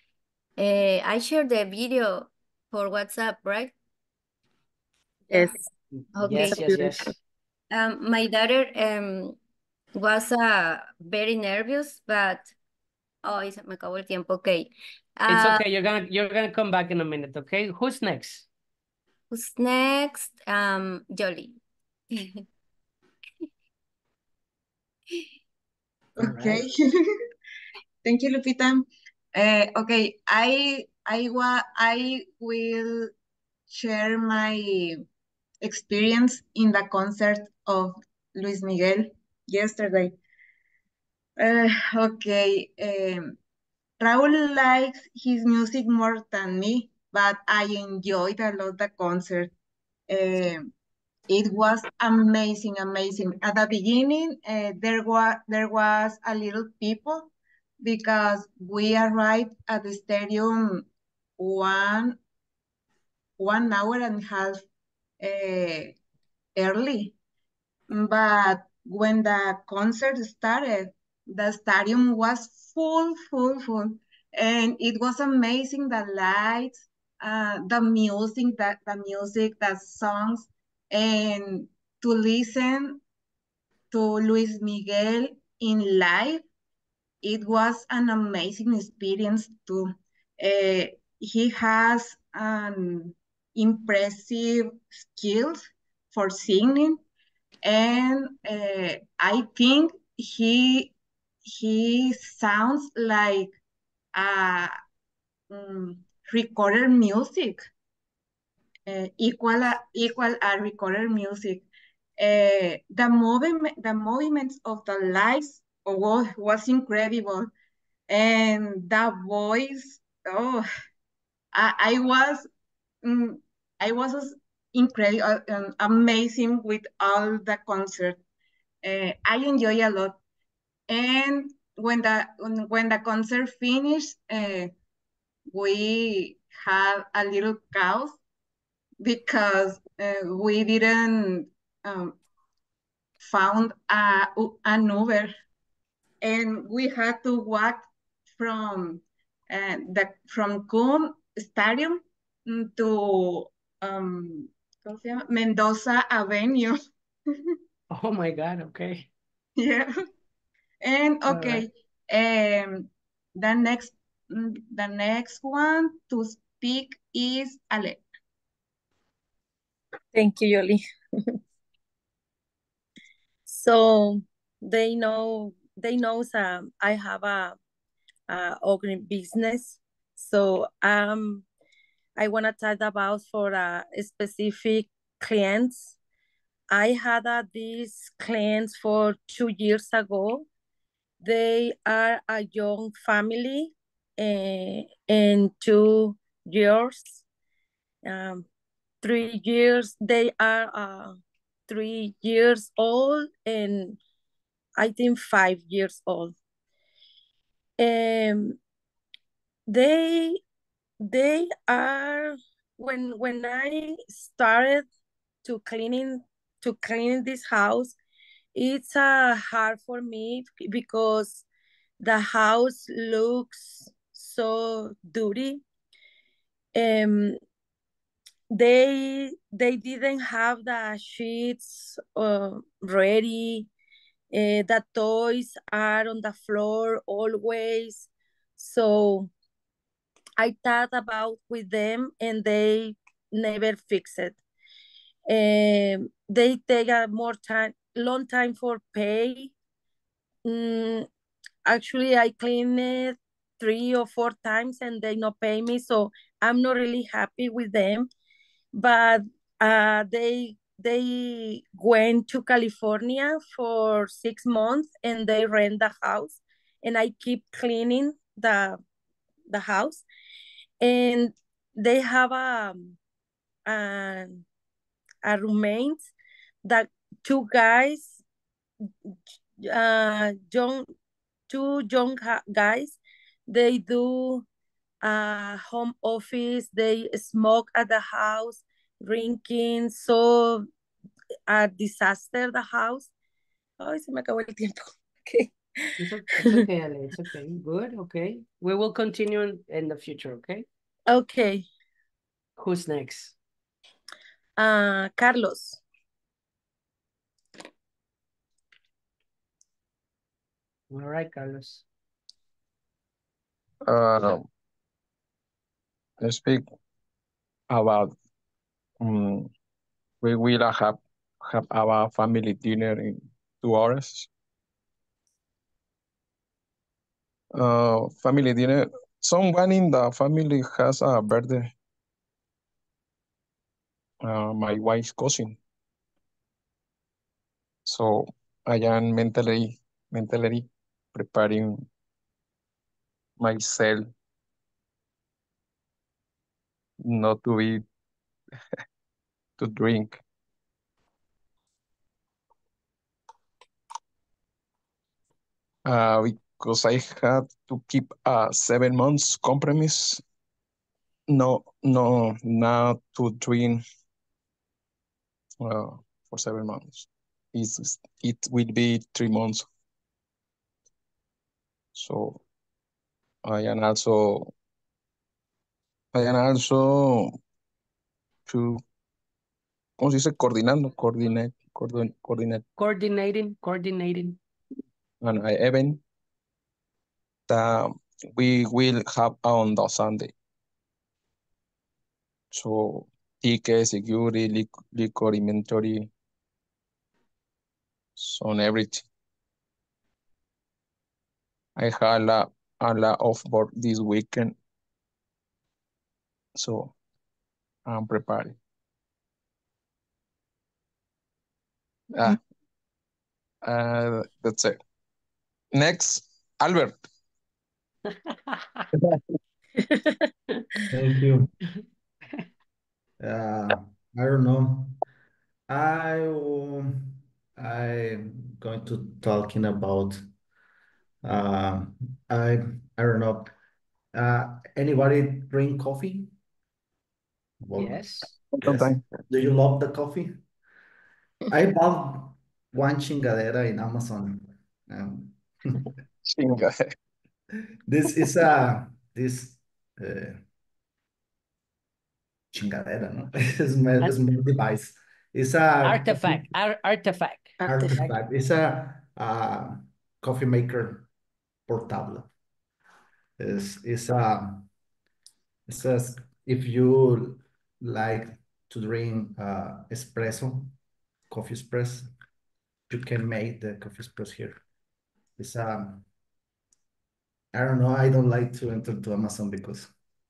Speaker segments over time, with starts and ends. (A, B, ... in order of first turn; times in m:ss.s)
0:00.6-0:03.7 A
0:05.3-0:05.6 B
0:06.1-0:06.8 A
0:06.2-0:07.1 C
0:07.7-0:09.4 A
0:09.9-0:12.5 A
0:13.2-0:15.6 A
0:15.3-0:18.5 C
0:19.3-0:21.6 A
0:22.1-0:22.4 A
0:26.2-0:26.8 D
0:26.2-0:26.6 C
0:28.0-0:33.1 D
0:33.7-0:35.0 D
0:35.6-0:40.2 D
0:41.4-0:43.3 D
0:44.0-0:49.5 D
0:50.1-0:50.6 D
0:51.3-1:00.9 D
1:01.4-1:02.2 D
1:03.4-1:04.6 D
1:05.2-1:06.0 D
1:06.6-1:07.1 D
1:07.9-1:23.0 D
1:23.9-1:26.4 D
1:27.2-1:37.0 D
1:37.6-1:43.6 D
1:44.1-1:44.8 D
1:45.5-1:47.6 D
1:48.9-1:51.7 D
1:52.2-1:57.5 D
1:58.1-2:00.6 D
2:01.5-2:02.5 D
2:03.0-2:08.2 D
2:08.8-2:10.2 D
2:10.9-2:14.7 D
2:15.5-2:18.2 D
2:19.0-2:22.2 D
2:23.2-2:25.3 D
2:26.2-2:27.8 D
2:28.4-2:36.8 D
2:37.9-2:39.1 C
2:39.6-2:39.9 D
2:40.8-2:48.0 D
2:41.3-2:41.6 C
2:50.1-2:51.4 B
2:53.5-2:57.6 B
2:58.3-3:01.4 B
3:02.2-3:05.9 B
3:06.7-3:10.5 B
3:11.2-3:17.2 B
3:18.0-3:18.5 B
3:19.0-3:21.2 B
3:21.7-3:24.0 B
3:24.8-3:26.3 B
3:27.8-3:28.6 B
3:29.7-3:30.4 B
3:31.0-3:34.8 B
3:35.4-3:38.0 B
3:38.5-3:41.4 B
3:42.0-3:45.6 B
3:46.8-3:47.4 B
3:48.5-3:53.7 B
3:54.3-3:59.3 B
4:00.4-4:04.4 B
4:05.3-4:09.5 B
4:10.4-4:11.1 B
4:11.6-4:18.1 B
4:18.7-4:28.8 B
4:29.5-4:30.0 B
4:30.8-4:32.9 B
4:33.6-4:34.4 B
4:35.2-4:36.0 B
4:36.6-4:38.2 B
4:39.6-4:40.9 B
4:41.5-4:44.4 B
4:45.0-4:50.6 B
4:51.5-4:53.1 B
4:53.8-4:55.5 B
4:56.0-5:00.6 C
4:56.3-4:56.6 B
5:01.1-5:01.6 B
5:02.6-5:03.4 C
5:04.6-5:05.8 B
5:10.9-5:11.8 C
5:13.8-5:14.4 E
5:16.2-5:16.7 E
5:17.7-5:18.2 E
5:19.0-5:19.5 E
5:20.2-5:24.3 E
5:27.5-5:31.7 E
5:34.2-5:35.6 E
5:37.8-5:41.8 E
5:43.4-5:44.1 E
5:47.0-5:47.8 E
5:49.6-5:50.2 E
5:55.8-6:00.2 E
6:01.3-6:03.8 E
6:05.6-6:09.7 E
6:11.9-6:12.4 E
6:13.4-6:14.5 E
6:16.1-6:17.4 E
6:18.5-6:18.8 E
6:20.0-6:22.6 E
6:22.8-6:24.4 C
6:25.2-6:26.0 E
6:27.5-6:30.3 E
6:32.5-6:36.1 E
6:38.2-6:39.1 E
6:41.8-6:44.6 E
6:46.6-6:46.9 E
6:47.8-6:48.6 E
6:52.1-6:52.4 E
6:53.6-6:54.8 E
6:55.7-6:57.1 E
6:58.2-6:58.8 C
6:59.9-7:00.2 B
7:00.9-7:01.5 F
7:03.2-7:05.0 F
7:05.7-7:10.2 F
7:11.2-7:13.5 F
7:14.1-7:16.3 F
7:17.6-7:18.1 F
7:17.8-7:18.3 C
7:18.5-7:19.0 E
7:18.6-7:20.4 F
7:21.5-7:25.8 F
7:26.2-7:26.9 E
7:27.9-7:30.4 F
7:32.5-7:36.5 F
7:35.8-7:38.1 C
7:37.6-7:38.0 B
7:37.6-7:41.1 F
7:41.7-7:42.3 F
7:43.4-7:44.7 F
7:45.7-7:50.7 F
7:51.3-7:52.1 F
7:52.9-7:54.6 F
7:55.4-7:56.0 F
7:57.5-7:59.9 F